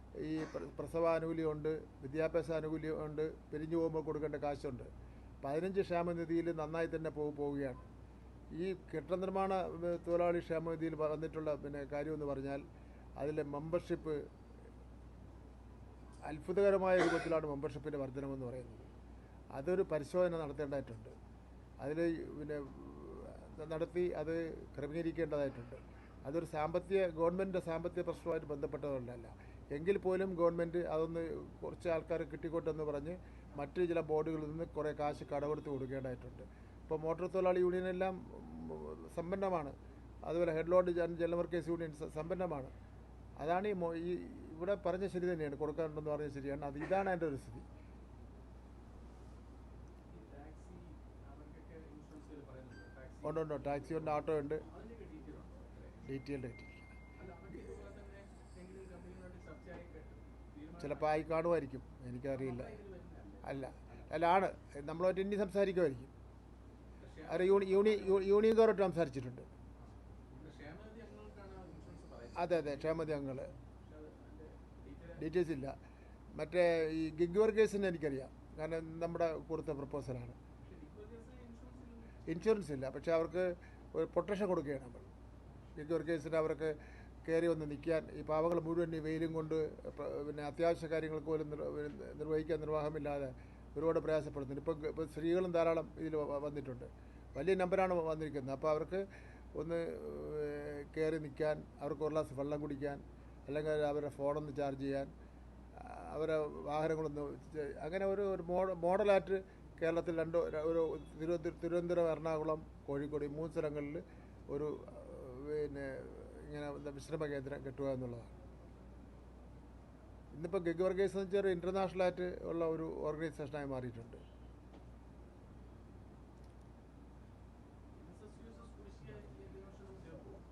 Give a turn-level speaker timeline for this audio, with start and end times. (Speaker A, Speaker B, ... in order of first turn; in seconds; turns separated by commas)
Speaker A: 0.2-4.9, Speaker A: 5.4-7.8, Speaker A: 8.5-12.6, Speaker A: 13.2-14.2, Speaker A: 16.3-18.9, Speaker A: 19.6-21.1, Speaker A: 21.8-39.8, Speaker A: 40.3-42.7, Speaker A: 43.4-47.7, Speaker B: 50.1-56.0, Speaker A: 53.2-54.6, Speaker A: 56.1-56.9, Speaker B: 57.2-61.3, Speaker A: 60.8-62.8, Speaker B: 62.3-64.4, Speaker A: 63.4-66.1, Speaker B: 67.0-68.3, Speaker A: 67.3-69.5, Speaker B: 69.8-73.0, Speaker A: 72.4-73.5, Speaker B: 73.8-75.2, Speaker A: 75.2-75.8, Speaker A: 76.3-80.4, Speaker B: 80.6-82.2, Speaker A: 82.3-85.1, Speaker A: 85.8-105.1, Speaker A: 105.8-118.3, Speaker A: 120.3-124.2, Speaker B: 127.9-130.4